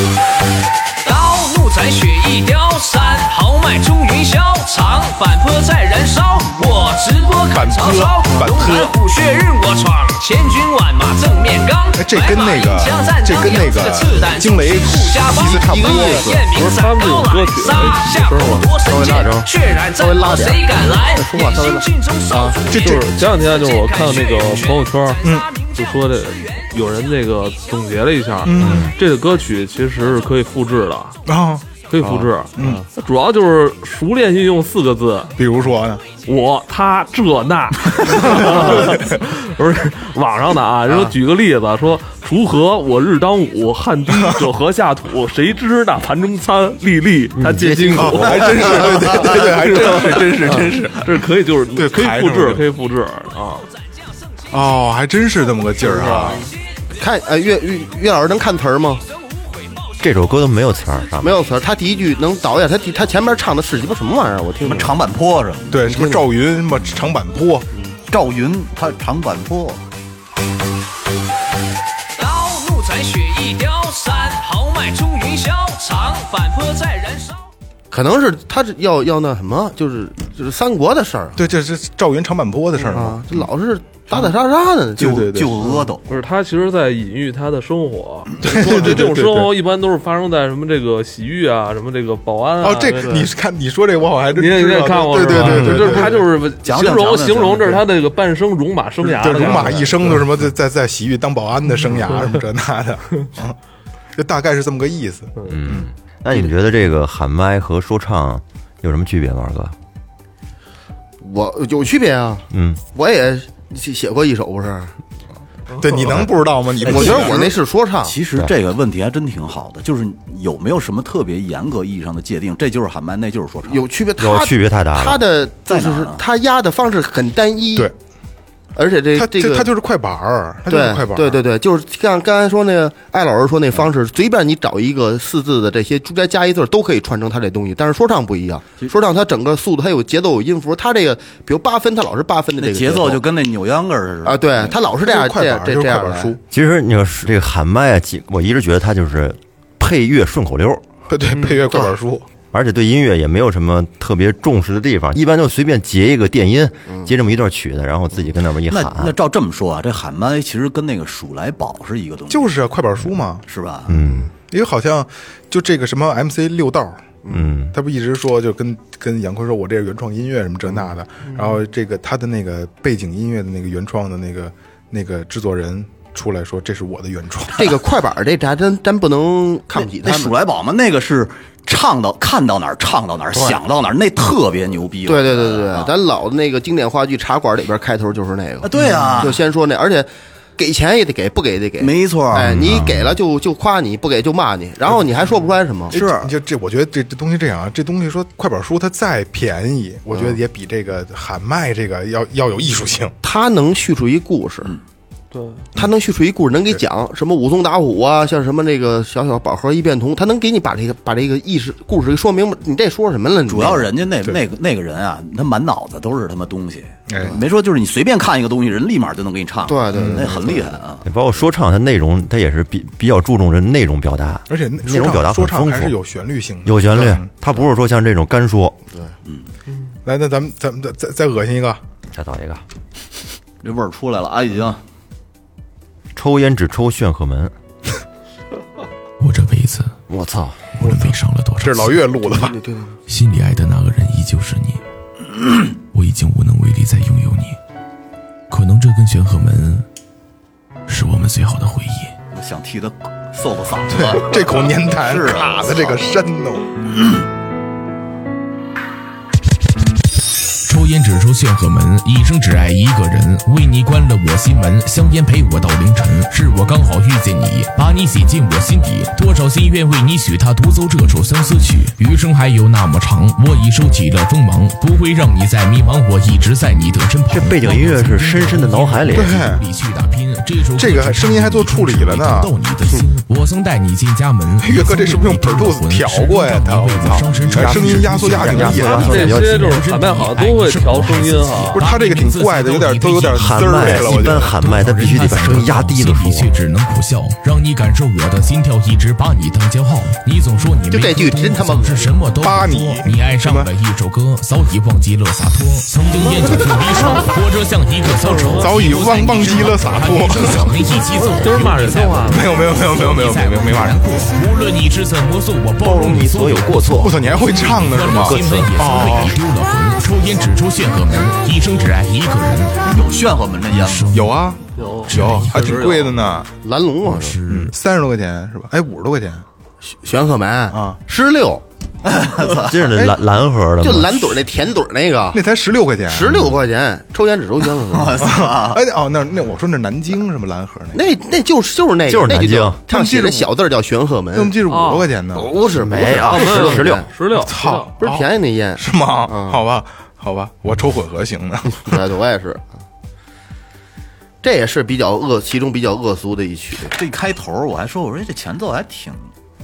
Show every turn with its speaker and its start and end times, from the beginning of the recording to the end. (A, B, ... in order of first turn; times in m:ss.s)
0:01.0-0:26.7 A
0:07.5-0:08.9 B
0:12.0-0:16.3 B
0:15.4-0:16.5 C
0:16.5-0:18.7 D
0:18.9-0:23.0 C
0:18.9-0:19.5 E
0:22.8-0:25.2 D
0:25.8-0:31.2 D
0:28.4-0:28.9 B
0:28.6-0:28.9 E
0:31.3-0:32.8 B
0:31.9-0:35.3 D
0:35.4-0:36.0 B
0:36.1-0:53.6 D
0:38.2-0:39.2 B
0:47.4-0:48.4 E
0:48.0-0:50.9 B
0:48.9-0:49.4 C
0:51.8-0:52.6 B
0:54.5-0:56.4 B
0:55.8-0:56.5 C
0:57.0-0:59.0 C
1:00.0-1:01.4 E
1:01.2-1:05.0 C
1:04.6-1:05.8 F
1:05.7-1:07.7 B
1:05.8-1:06.3 C
1:08.1-1:09.8 F
1:12.2-1:17.4 A
1:17.9-1:21.4 C
1:21.4-1:23.5 B
1:22.8-1:25.9 C
1:25.0-1:26.0 F
1:25.0-1:25.5 B
1:26.1-1:33.1 D
1:28.4-1:29.5 B
1:28.5-1:29.0 C
1:32.6-1:36.3 B
1:33.0-1:33.3 C
1:34.4-1:39.9 D
1:36.6-1:37.8 F
1:39.1-1:43.6 B
1:39.4-1:39.9 C
1:44.2-1:45.9 B
1:45.5-1:49.8 E
1:51.2-1:54.9 C
1:52.5-1:52.8 E
1:55.8-1:57.5 B
1:56.8-2:03.9 F
1:56.9-1:58.2 C
2:03.7-2:07.9 C
2:04.2-2:05.2 E
2:05.7-2:06.2 F
2:08.8-2:09.7 C
2:09.1-2:11.4 B
2:10.7-2:23.2 C
2:22.6-2:24.8 F
2:24.2-2:26.4 C
2:24.8-2:26.4 B
2:26.5-2:30.8 E
2:31.1-2:32.3 B
2:32.5-2:39.2 E
2:38.7-2:42.6 F
2:42.3-2:43.5 B
2:43.5-2:43.9 F
2:43.9-2:44.3 E
2:43.9-2:44.3 C
2:44.5-2:47.2 B
2:47.3-2:47.7 E
2:47.7-2:57.7 B
2:50.7-2:51.6 C
2:57.6-3:00.4 C
2:59.8-3:05.9 F
3:03.3-3:03.6 C
3:05.0-3:16.0 C
3:08.6-3:09.4 F
3:11.8-3:12.8 F
3:12.5-3:13.1 E
3:15.9-3:16.3 F
3:15.9-3:23.2 B
3:20.1-3:20.4 C
3:23.2-3:24.8 C
3:25.3-3:25.6 D
3:25.8-3:33.9 C
3:33.5-3:41.1 F
3:37.1-3:37.4 B
3:39.7-3:40.8 C
3:39.9-3:40.3 B
3:41.0-3:46.0 E
3:44.5-3:47.3 B
3:46.6-3:48.8 E
3:50.1-3:51.8 B
3:52.1-3:52.6 E
3:53.6-3:54.8 F
3:56.1-3:57.5 E
3:59.2-4:00.0 G
4:00.1-4:00.7 E
4:00.8-4:02.0 G
4:01.6-4:02.6 B
4:02.2-4:03.0 C
4:03.1-4:04.8 G
4:05.8-4:07.6 G
4:08.5-4:09.8 G
4:10.9-4:12.1 G
4:12.3-4:16.2 F
4:13.9-4:16.7 B
4:20.7-5:22.9 G
4:37.3-4:39.5 E
4:39.1-4:39.6 B
4:40.8-4:42.5 B
4:44.6-4:49.4 B
4:47.4-4:49.8 E
4:49.0-4:51.8 D
4:51.7-4:54.6 B
4:53.4-4:56.5 E
5:00.9-5:02.2 C
5:02.4-5:03.7 B
5:08.1-5:08.7 D
5:08.6-5:10.9 B
5:11.2-5:12.5 D
5:12.3-5:14.3 B
5:15.8-5:17.4 E
5:16.9-5:19.4 B
5:18.2-5:18.7 E
5:22.8-5:24.1 F
5:23.7-5:24.5 G
5:24.1-5:26.5 B
5:24.8-5:25.9 D
5:25.1-5:25.9 G
5:26.6-5:27.4 C
5:27.0-5:27.7 G
5:27.5-5:29.4 B
5:29.9-5:31.6 C
5:30.7-5:31.0 B
5:32.0-5:32.9 F
5:32.6-5:34.4 E
5:33.8-5:35.4 C
5:35.3-5:36.5 B
5:36.1-5:38.3 C
5:37.9-5:38.8 F
5:38.2-5:41.0 B
5:40.9-5:44.6 C
5:42.1-5:42.8 E
5:42.9-5:43.5 B
5:44.3-5:45.5 B
5:44.7-5:45.1 D
5:45.4-5:47.1 C
5:45.8-5:47.1 E
5:46.2-5:47.9 D
5:47.3-5:52.0 B
5:48.0-5:49.6 C
5:51.7-5:52.7 C
5:54.4-5:57.0 C
5:56.9-5:59.3 F